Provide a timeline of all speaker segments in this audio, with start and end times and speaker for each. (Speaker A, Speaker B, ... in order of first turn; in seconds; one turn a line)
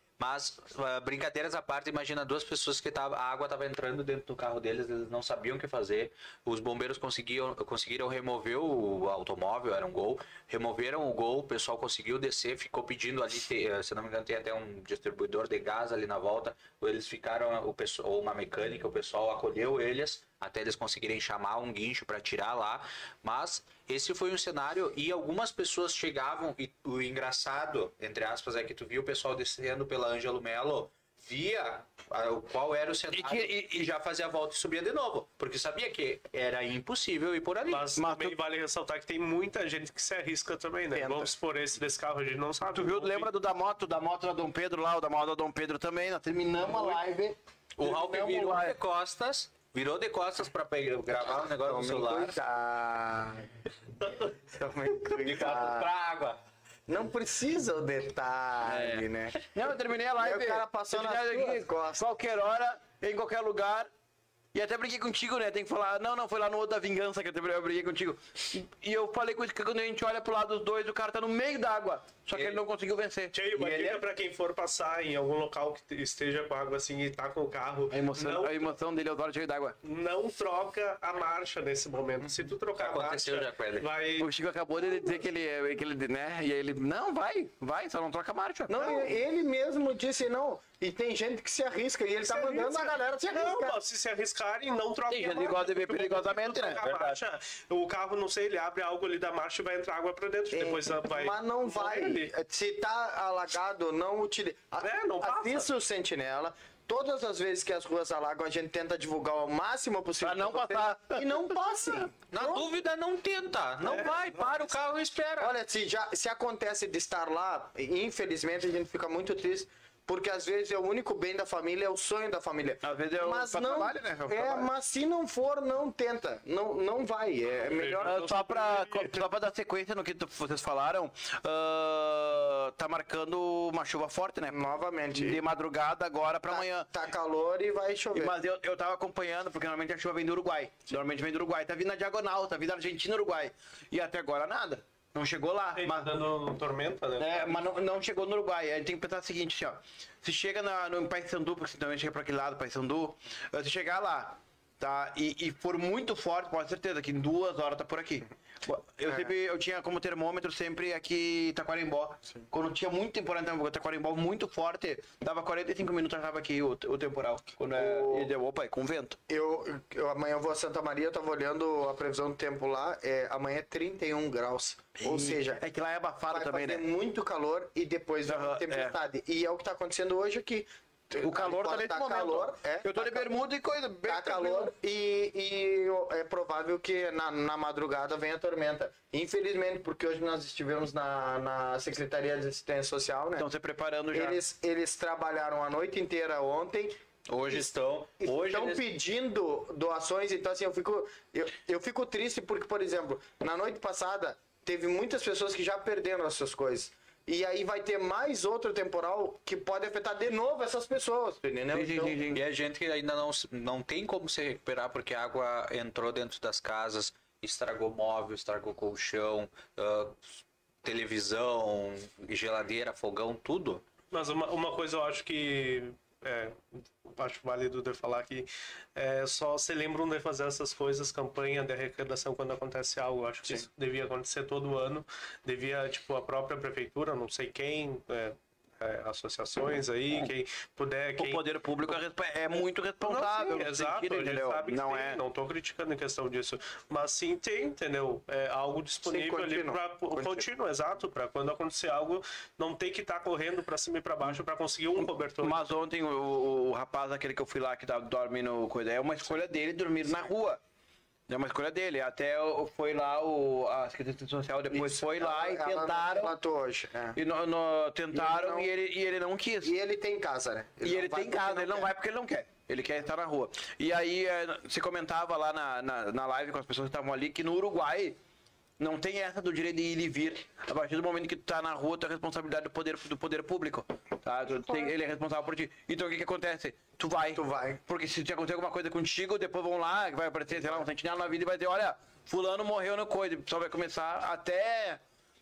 Speaker A: 0.2-37.9
Speaker B: 33.1-33.9
Speaker C: 37.7-43.3
Speaker B: 38.0-38.4
Speaker D: 41.0-41.3
Speaker B: 42.7-48.8
Speaker D: 46.6-47.1
Speaker A: 47.8-52.4
Speaker D: 51.6-53.5
Speaker D: 54.5-55.9
Speaker A: 55.1-56.4
Speaker D: 56.9-59.4
Speaker B: 58.6-63.9
Speaker D: 60.2-62.0
Speaker B: 64.5-74.0
Speaker C: 72.3-72.6
Speaker C: 73.3-78.7
Speaker B: 77.9-79.8
Speaker C: 79.8-84.3
Speaker A: 82.8-83.9
Speaker B: 84.2-89.0
Speaker D: 88.7-93.8
Speaker C: 92.2-102.3
Speaker B: 95.1-97.2
Speaker D: 100.5-112.7
Speaker C: 104.8-105.7
Speaker B: 110.2-111.6
Speaker A: 112.3-115.5
Speaker D: 115.4-128.2
Speaker B: 122.8-124.7
Speaker C: 127.7-129.2
Speaker B: 128.0-134.6
Speaker D: 134.5-135.4
Speaker B: 135.1-136.9
Speaker D: 136.5-138.3
Speaker B: 138.1-146.1
Speaker C: 145.8-147.6
Speaker B: 147.2-169.2
Speaker D: 167.7-168.3
Speaker D: 169.3-175.6
Speaker B: 175.0-176.8
Speaker D: 176.3-183.3
Speaker B: 178.2-178.9
Speaker B: 181.2-184.7
Speaker D: 184.1-193.5
Speaker B: 193.4-194.4
Speaker D: 194.1-196.9
Speaker A: 197.3-198.8
Speaker D: 198.2-212.2
Speaker B: 211.7-212.4
Speaker A: 212.3-223.8
Speaker C: 224.1-241.4
Speaker B: 241.2-245.2
Speaker C: 243.0-255.6
Speaker D: 243.2-243.6
Speaker D: 249.1-250.4
Speaker B: 255.0-260.6
Speaker B: 261.3-266.4
Speaker D: 264.7-267.2
Speaker B: 267.1-269.7
Speaker D: 268.1-268.7
Speaker D: 269.6-271.9
Speaker B: 270.8-278.2
Speaker B: 278.8-295.0
Speaker D: 287.4-287.8